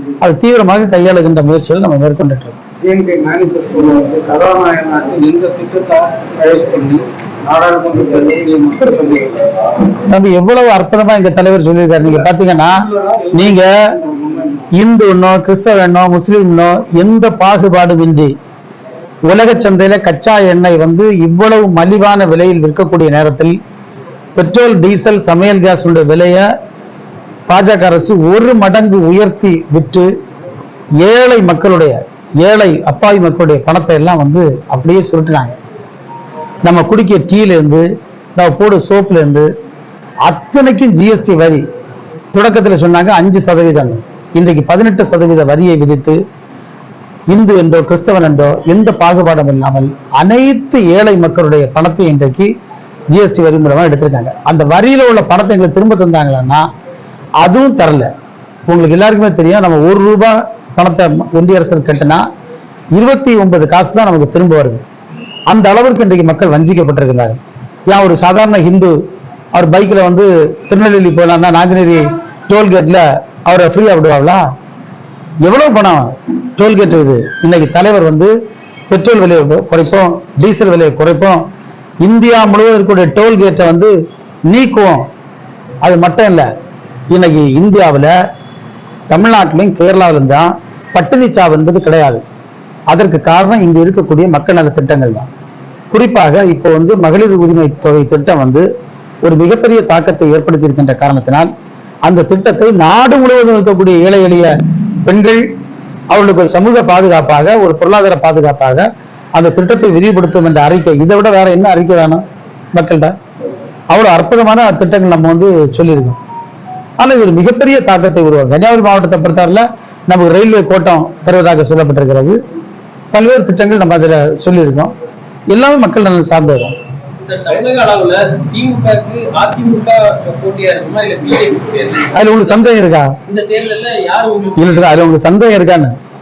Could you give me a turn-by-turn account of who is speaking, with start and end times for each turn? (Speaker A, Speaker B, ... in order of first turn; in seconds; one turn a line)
Speaker A: 0.2-2.6
Speaker B: 2.8-9.6
Speaker A: 9.9-13.9
Speaker B: 12.9-14.6
Speaker A: 14.7-18.3
Speaker A: 19.2-23.6
Speaker A: 24.4-26.5
Speaker A: 27.5-30.1
Speaker A: 31.0-35.6
Speaker A: 36.6-37.8
Speaker A: 38.4-39.5
Speaker A: 40.2-41.6
Speaker A: 42.3-46.2
Speaker A: 47.3-52.5
Speaker A: 53.1-56.7
Speaker A: 57.4-58.1
Speaker A: 58.7-62.2
Speaker A: 62.9-64.8
Speaker A: 65.5-68.9
Speaker A: 69.5-74.4
Speaker A: 75.4-78.3
Speaker A: 78.9-81.5
Speaker A: 82.0-83.9
Speaker A: 84.5-85.1
Speaker A: 85.8-86.5
Speaker A: 87.1-88.1
Speaker A: 89.1-92.2
Speaker A: 92.9-95.3
Speaker A: 95.9-98.6
Speaker A: 99.2-101.5
Speaker A: 102.0-104.5
Speaker A: 105.0-105.4
Speaker A: 106.1-112.2
Speaker A: 112.7-113.1
Speaker A: 113.9-116.2
Speaker A: 117.0-122.4
Speaker A: 123.1-124.9
Speaker A: 125.5-126.7
Speaker C: 127.2-132.6
Speaker A: 132.1-133.1
Speaker C: 133.2-134.9
Speaker A: 134.6-135.9